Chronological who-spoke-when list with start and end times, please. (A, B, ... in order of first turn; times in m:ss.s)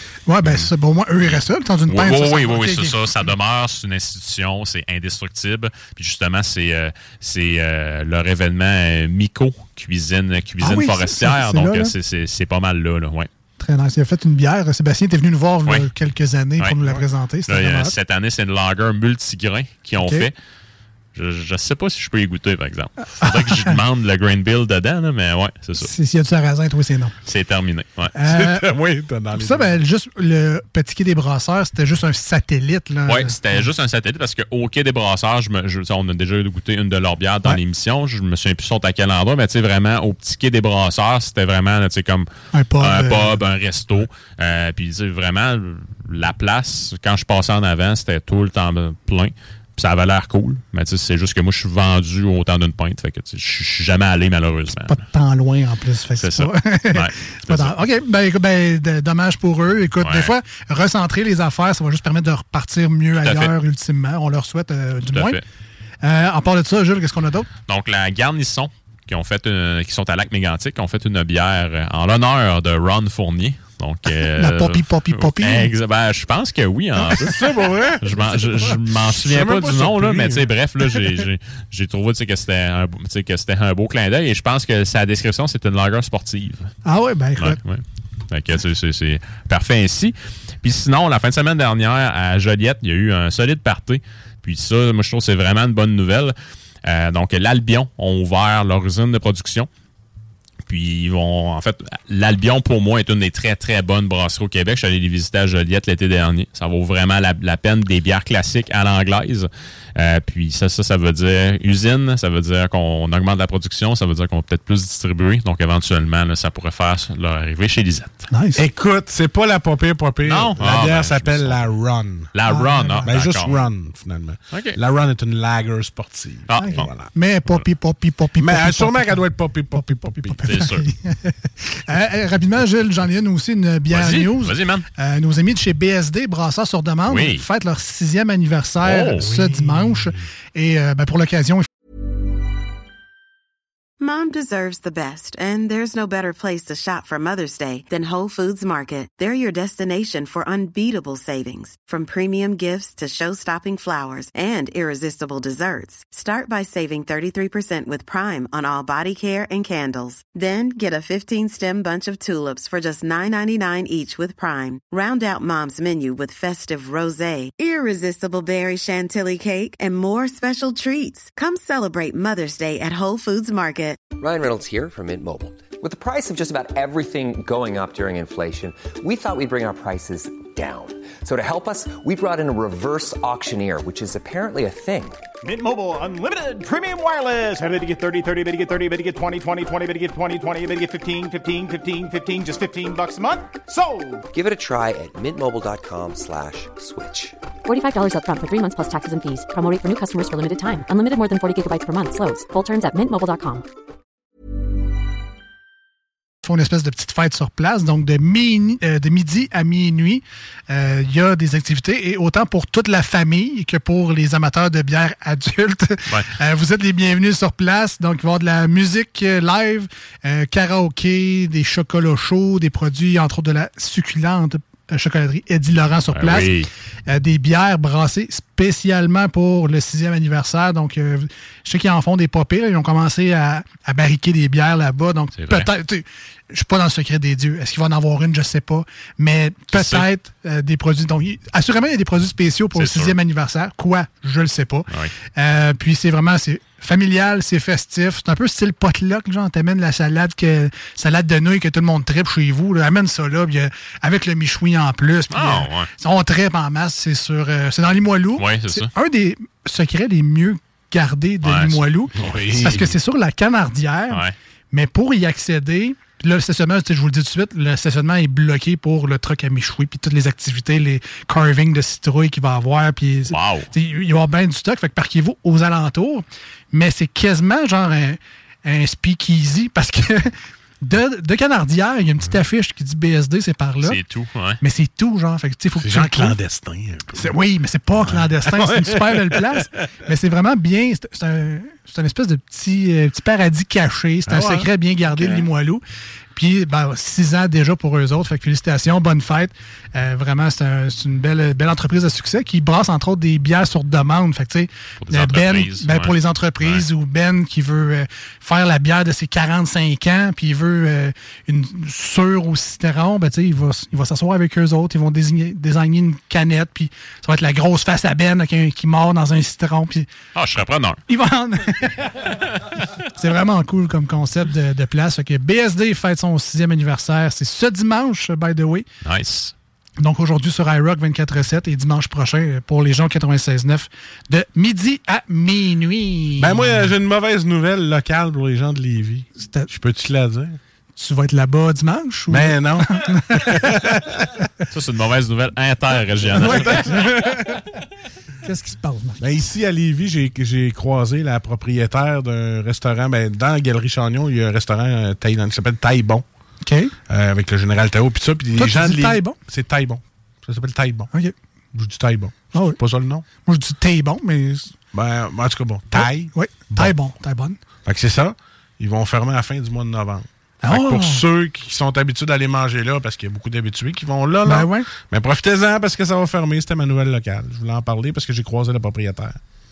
0:00.3-0:03.1 A
0:01.2-0:13.3 B
0:10.6-0:11.9 A
0:13.6-0:17.9 A
0:17.5-0:20.3 B
0:20.0-0:20.3 A
0:21.1-0:25.9 B
0:23.2-0:23.7 A
0:25.8-0:27.1 A
0:27.2-0:28.1 B
0:28.1-0:28.6 A
0:28.2-0:29.8 C
0:29.3-0:33.6 A
0:33.1-0:42.3 B
0:42.5-0:43.4 A
0:42.8-0:55.0 B
0:54.7-1:05.4 A
0:56.2-0:57.7 B
1:00.0-1:00.3 B
1:03.2-1:03.5 B
1:05.1-1:05.4 B
1:06.0-1:07.5 A
1:07.7-1:26.7 B
1:14.4-1:15.7 A
1:17.0-1:20.5 C
1:26.8-1:27.6 A
1:27.4-1:39.7 B
1:40.7-1:58.2 B
1:58.3-1:58.6 A
1:58.6-2:02.3 C
2:00.2-2:01.7 B
2:02.3-2:03.6 B
2:02.5-2:03.0 A
2:03.0-2:07.1 C
2:04.5-2:04.8 B
2:06.5-2:06.9 B
2:06.6-2:21.7 A
2:08.4-2:10.4 C
2:10.5-2:10.8 B
2:13.9-2:14.8 B
2:17.1-2:17.4 B
2:18.8-2:19.2 B
2:19.2-2:20.2 C
2:24.0-2:54.1 D
2:54.2-3:05.2 E
3:05.4-3:14.2 F
3:14.3-3:17.3 E
3:17.6-3:23.6 G
3:26.4-3:46.5 A
3:46.1-3:46.7 B
3:47.1-4:44.0 A
3:55.4-3:55.7 B
3:59.7-4:00.1 B
4:02.7-4:03.2 B
4:15.3-4:15.9 B
4:18.4-4:18.9 B
4:21.4-4:21.8 B
4:22.2-4:23.0 C
4:33.3-4:33.7 B
4:43.8-4:44.6 B
4:44.6-4:46.4 A
4:45.8-4:47.3 C
4:47.1-4:55.8 A
4:48.0-4:49.6 C
4:54.3-4:55.4 C
4:56.3-5:20.1 A
5:05.0-5:06.8 B
5:20.3-5:21.0 B
5:21.1-5:22.2 A
5:23.1-5:28.8 A
5:29.0-5:29.5 B
5:30.0-5:36.9 A
5:36.4-5:40.6 C
5:39.4-5:39.7 A
5:41.0-5:43.8 A
5:42.3-5:44.4 C
5:44.7-5:46.9 B
5:46.3-5:47.5 C
5:46.3-5:47.3 A
5:48.4-5:49.3 A
5:49.2-5:56.2 C
5:56.6-5:56.9 A
5:57.1-6:01.1 C
5:58.6-5:59.4 A
6:01.7-6:03.2 C
6:02.5-6:02.8 A
6:03.4-6:04.7 A
6:04.9-6:06.9 C
6:05.9-6:07.6 A
6:07.8-6:19.4 C
6:10.6-6:11.2 A
6:14.4-6:14.8 A